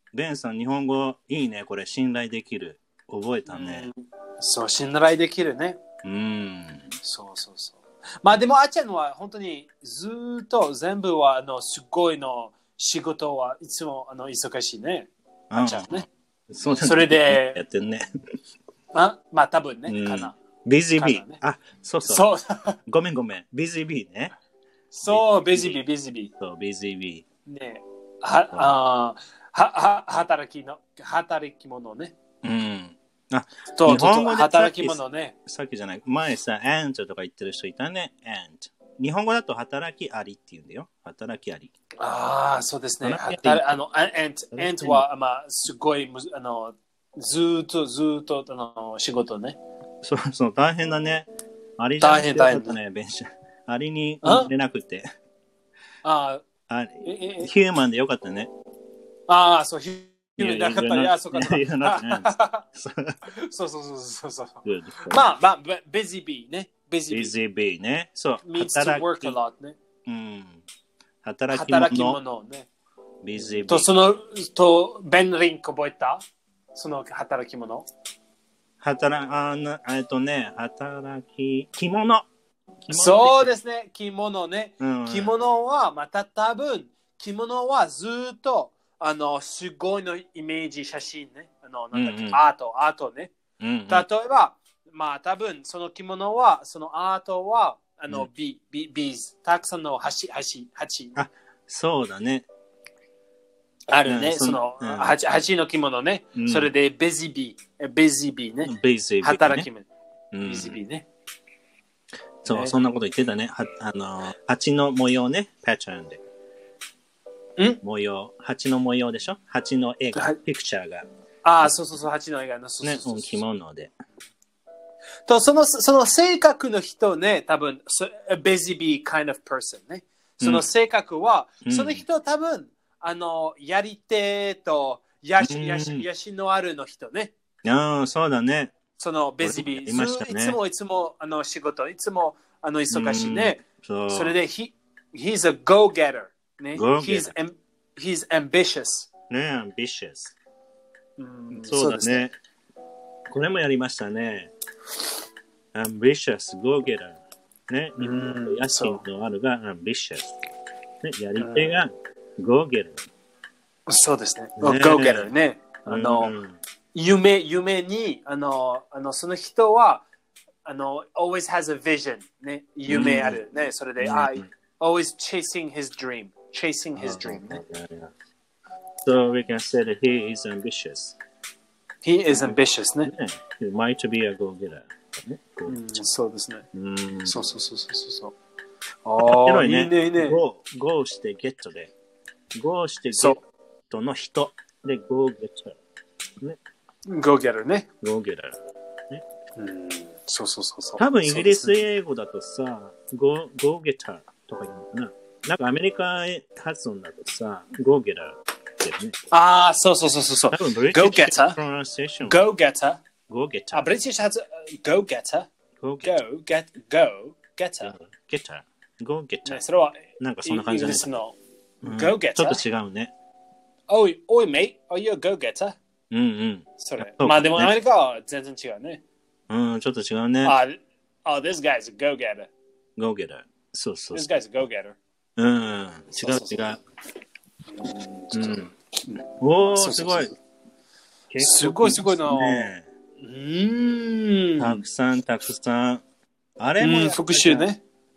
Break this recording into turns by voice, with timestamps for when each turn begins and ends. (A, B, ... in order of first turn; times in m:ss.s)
0:00.1-0:03.9 A
0:03.5-0:05.8 B
0:06.0-0:06.9 A
0:07.0-0:16.0 B
0:15.5-0:18.0 A
0:16.6-0:17.6 B
0:18.9-0:20.4 B
0:19.9-0:22.3 A
0:21.0-0:21.4 B
0:22.1-0:22.8 B
0:22.9-0:24.3 A
0:24.9-0:26.3 B
0:25.1-0:25.8 A
0:26.4-0:27.2 A
0:27.5-0:32.1 B
0:32.4-0:41.7 A
0:33.7-0:35.3 B
0:42.0-0:49.6 B
0:43.0-0:43.7 A
0:44.5-0:45.0 A
0:50.0-0:55.1 A
0:52.0-0:52.8 B
0:54.2-0:54.5 B
0:56.0-0:56.4 B
0:56.7-0:58.5 A
0:57.0-0:57.5 B
0:59.3-1:02.6 B
1:00.4-1:03.2 A
1:03.3-1:07.3 B
1:04.6-1:05.3 A
1:07.1-1:09.4 A
1:08.4-1:09.8 B
1:10.0-1:10.6 A
1:11.2-1:12.2 A
1:11.5-1:12.7 B
1:13.2-1:13.9 A
1:13.6-1:16.2 B
1:16.7-1:17.9 B
1:18.8-1:22.3 A
1:22.9-1:23.5 A
1:22.9-1:33.3 B
1:24.8-1:25.3 A
1:31.9-1:32.4 A
1:33.6-1:34.1 A
1:33.9-1:41.2 B
1:41.2-1:42.5 A
1:43.9-1:49.9 B
1:44.0-1:45.1 A
1:46.4-1:46.7 A
1:48.6-1:49.7 A
1:50.3-1:50.8 A
1:50.4-1:51.1 B
1:52.4-1:56.2 A
1:52.4-1:52.7 B
1:57.8-2:01.1 A
2:01.4-2:03.4 B
2:02.8-2:03.9 A
2:05.3-2:17.3 B
2:10.4-2:10.7 A
2:11.6-2:12.0 A
2:15.4-2:16.0 A
2:17.6-2:18.8 A
2:19.0-2:29.1 B
2:19.4-2:20.6 A
2:22.9-2:24.3 A
2:26.7-2:27.3 A
2:29.3-2:30.3 A
2:31.2-2:32.2 B
2:31.5-2:32.3 A
2:33.3-2:34.5 A
2:35.7-2:40.4 A
2:38.0-2:39.0 B
2:41.0-2:43.0 A
2:41.4-2:41.8 B
2:43.9-2:46.4 B
2:44.6-2:45.3 A
2:45.9-2:46.6 A
2:46.9-2:50.0 B
2:50.6-2:57.6 B
2:52.9-2:53.4 A
2:54.0-2:54.5 A
2:57.0-2:58.1 A
2:59.0-3:01.2 A
3:02.0-3:03.1 B
3:02.3-3:06.0 A
3:05.7-3:06.6 B
3:06.7-3:07.4 A
3:07.3-3:08.4 B
3:09.0-3:10.4 B
3:09.2-3:11.9 A
3:12.6-3:13.4 A
3:13.1-3:13.4 B
3:13.9-3:15.8 A
3:17.1-3:17.9 B
3:18.0-3:18.6 A
3:19.6-3:21.8 B
3:21.0-3:29.2 A
3:29.3-3:31.6 B
3:30.5-3:32.5 A
3:32.2-3:33.0 B
3:33.3-3:33.9 A
3:33.7-3:35.5 B
3:35.8-3:36.1 A
3:36.0-3:37.9 B
3:37.8-3:39.6 A
3:39.4-3:42.6 B
3:40.2-3:41.2 A
3:41.8-3:43.1 A
3:43.9-3:45.8 B
3:46.1-3:47.7 A
3:46.8-3:49.0 B
3:49.5-3:50.6 A
3:50.4-3:52.5 B
3:53.0-3:54.3 A
3:54.1-3:55.0 B
3:55.4-3:56.8 A
3:56.1-3:56.7 B
3:57.7-4:00.4 B
3:58.3-3:58.7 A
3:59.4-4:00.3 A
4:01.3-4:02.9 A
4:01.4-4:04.8 B
4:04.6-4:06.0 A
4:06.6-4:07.7 A
4:06.8-4:07.8 B